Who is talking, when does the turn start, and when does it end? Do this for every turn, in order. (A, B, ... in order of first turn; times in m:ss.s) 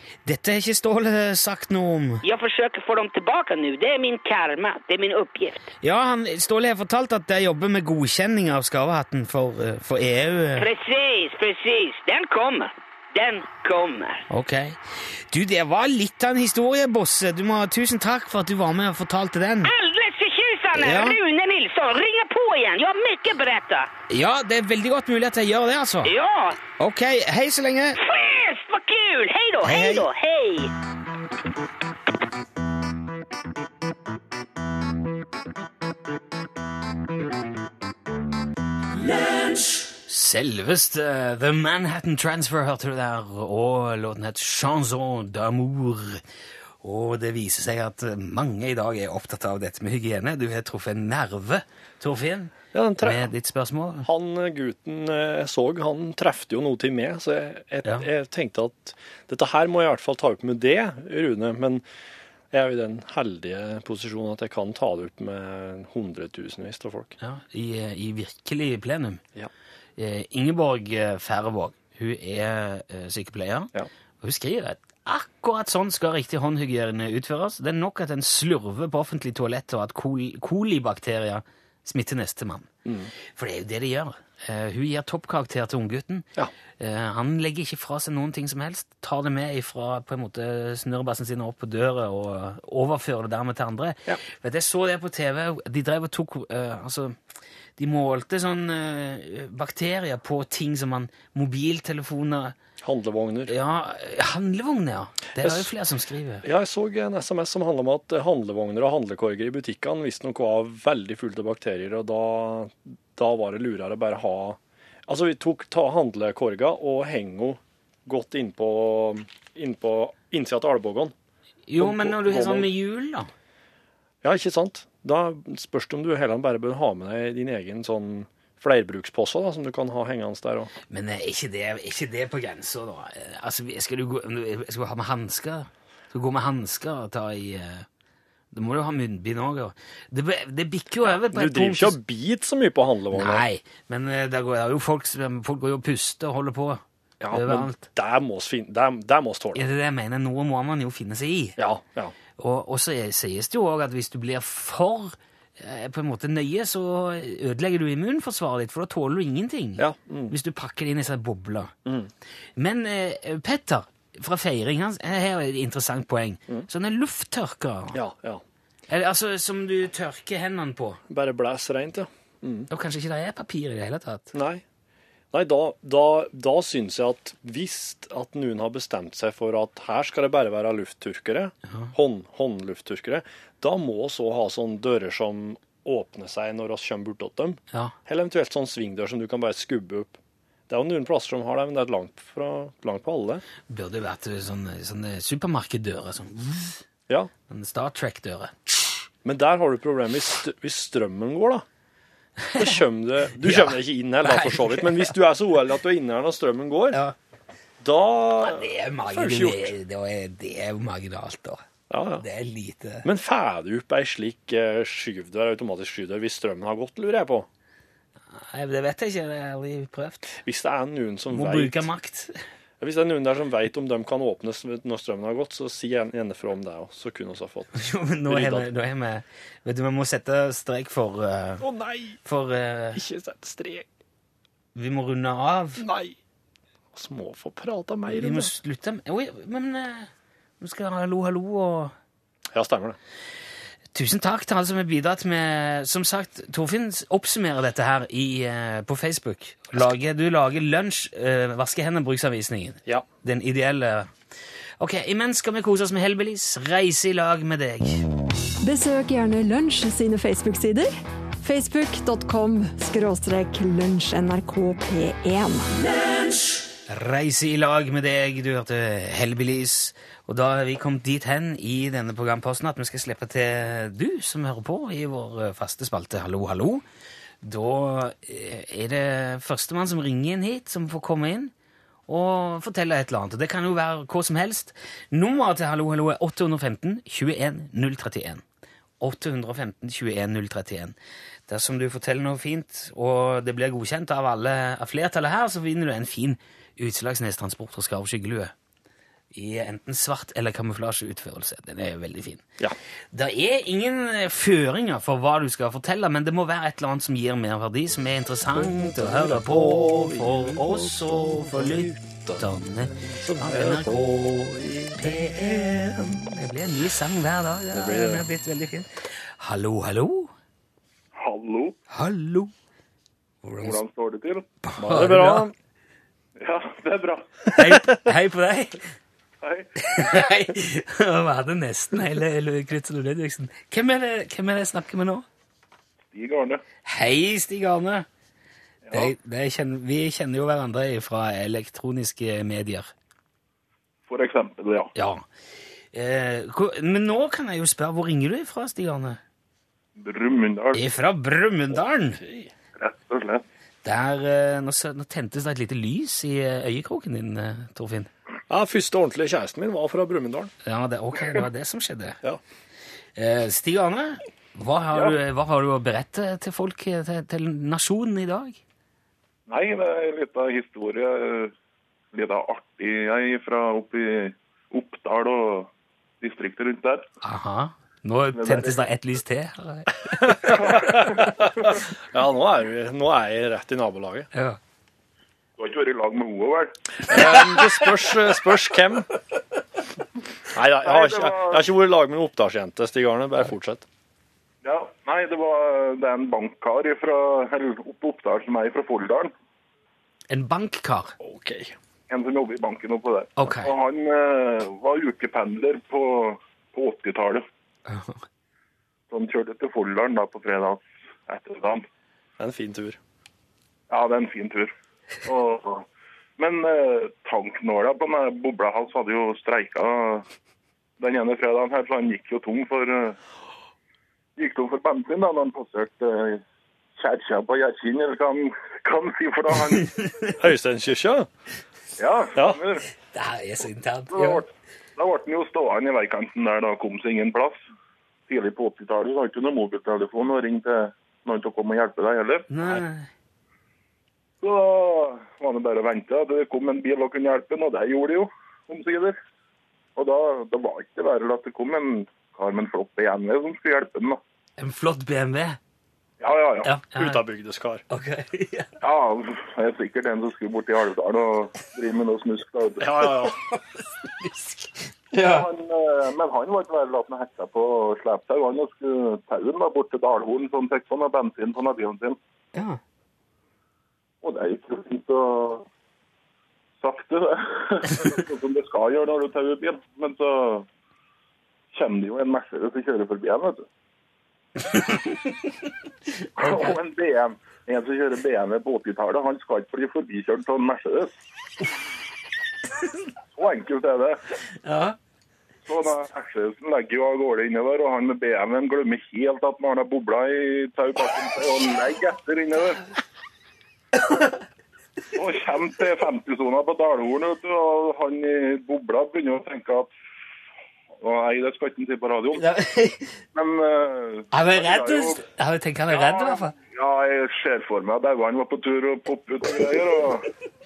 0:00.2-0:02.2 A
0:02.2-0:05.7 B
0:05.8-0:10.7 A
0:10.6-0:14.3 B
0:14.3-0:19.7 A
0:19.6-0:23.9 B
0:20.8-0:21.2 A
0:24.1-0:26.1 A
0:26.0-0:26.6 B
0:26.8-0:28.0 A
0:28.0-0:30.7 B
0:29.6-0:30.1 A
0:40.1-0:46.2 A
0:46.8-0:54.1 A
0:52.7-0:53.3 C
0:54.0-1:01.8 C
1:02.5-1:07.2 C
1:07.2-1:09.2 A
1:10.0-1:22.7 A
1:22.8-1:23.1 C
1:23.4-1:26.3 A
1:26.8-1:37.2 A
1:37.8-1:42.6 A
1:42.8-1:43.5 C
1:43.5-1:46.4 A
1:45.4-1:45.7 C
1:46.4-2:01.1 C
2:01.7-2:03.3 A
2:01.8-2:02.7 C
2:04.2-2:10.7 C
2:10.9-2:17.9 A
2:18.5-2:22.0 A
2:21.0-2:23.5 C
2:23.1-2:27.8 A
2:27.2-2:29.7 C
2:29.5-2:31.6 A
2:31.6-2:32.1 C
2:32.4-2:41.7 A
2:39.8-2:40.4 C
2:41.8-2:42.1 C
2:42.6-2:48.0 A
2:47.9-2:48.4 C
2:48.9-2:51.0 A
2:51.1-2:52.7 C
2:52.7-2:54.3 A
2:54.3-2:54.6 C
2:55.3-3:10.2 C
3:10.7-3:13.4 C
3:13.7-3:16.8 A
3:17.5-3:18.8 A
3:19.2-3:21.6 C
3:22.5-3:22.7 A
3:22.6-3:27.0 C
3:23.4-3:25.1 A
3:27.8-3:29.7 C
3:28.4-3:31.6 A
3:31.9-3:32.2 C
3:32.2-3:33.1 A
3:33.0-3:37.5 C
3:38.3-3:40.3 A
3:40.3-3:41.9 C
3:41.3-3:42.4 A
3:42.8-3:48.7 C
3:47.8-3:51.6 A
3:51.6-3:52.2 C
3:52.2-3:53.0 A
3:53.0-3:53.9 C
3:54.8-3:55.8 A
3:55.8-3:56.2 C
3:56.9-3:58.5 C
3:58.1-4:00.1 A
4:00.6-4:01.9 A
4:02.5-4:03.0 C
4:03.9-4:14.1 A
4:14.8-4:18.0 A
4:18.6-4:25.8 D
4:26.9-4:36.8 A
4:37.4-4:41.5 A
4:42.1-4:48.4 A
4:49.0-4:51.0 A
4:51.5-4:58.5 A
4:59.3-5:02.4 A
5:03.1-5:20.3 A
5:08.5-5:16.1 C
5:17.7-5:18.2 C
5:21.2-5:21.8 E
5:21.9-5:22.5 A
5:23.4-5:23.8 A
5:23.6-5:24.5 E
5:24.6-5:25.5 A
5:24.8-5:25.5 C
5:26.4-5:27.4 E
5:27.5-5:28.8 A
5:27.6-5:28.0 C
5:29.4-5:29.7 E
5:29.8-5:35.3 A
5:36.1-5:36.6 E
5:36.8-5:38.1 A
5:38.9-5:39.1 E
5:38.9-5:42.9 A
5:44.1-5:44.9 E
5:45.0-5:45.2 A
5:45.9-5:49.2 A
5:50.0-5:50.8 E
5:50.7-5:52.2 A
5:52.2-5:52.5 C
5:52.8-5:53.4 E
5:53.8-5:58.1 A
5:58.5-6:00.5 C
6:00.6-6:02.2 A
6:03.2-6:08.6 A
6:09.5-6:11.5 E
6:12.1-6:15.7 E
6:16.2-6:17.1 E
6:17.2-6:20.8 A
6:18.3-6:18.8 E
6:20.2-6:24.3 C
6:20.5-6:21.6 E
6:24.3-6:24.6 A
6:25.6-6:26.7 E
6:27.1-6:29.1 C
6:30.5-6:33.9 C
6:30.8-6:31.7 E
6:34.6-6:39.3 E
6:40.3-6:41.2 A
6:41.2-6:41.8 C
6:42.1-6:47.4 E
6:43.4-6:43.7 A
6:47.9-6:48.2 A
6:49.1-6:51.9 E
6:52.4-6:53.0 C
6:53.9-6:54.7 E
6:55.2-6:55.9 E
6:56.4-7:00.3 E
7:01.0-7:03.2 E
7:04.4-7:06.4 E
7:07.0-7:10.0 E
7:10.4-7:11.3 C
7:12.0-7:12.9 E
7:12.4-7:12.6 C
7:13.1-7:14.4 A
7:14.1-7:17.6 E
7:18.3-7:22.5 E
7:22.5-7:23.1 A
7:24.4-7:29.2 E
7:30.0-7:34.2 E
7:34.6-7:35.6 A
7:36.2-7:36.7 E
7:36.6-7:37.2 A
7:36.9-7:37.8 C
7:37.9-7:38.7 A
7:38.8-7:43.0 E
7:42.8-7:43.4 C
7:43.4-7:45.5 A
7:45.2-7:52.2 E
7:52.6-7:52.8 A
7:54.2-7:55.7 E
7:56.8-8:00.7 E
8:01.7-8:03.7 E
8:04.7-8:05.2 A
8:06.4-8:11.1 E
8:06.4-8:06.7 A
8:13.4-8:14.2 E
8:14.6-8:15.0 A
8:15.7-8:22.8 E
8:25.1-8:29.9 E
8:31.0-8:32.4 E
8:32.4-8:33.2 A
8:33.3-8:35.2 E
8:34.3-8:36.5 A
8:35.9-8:40.3 E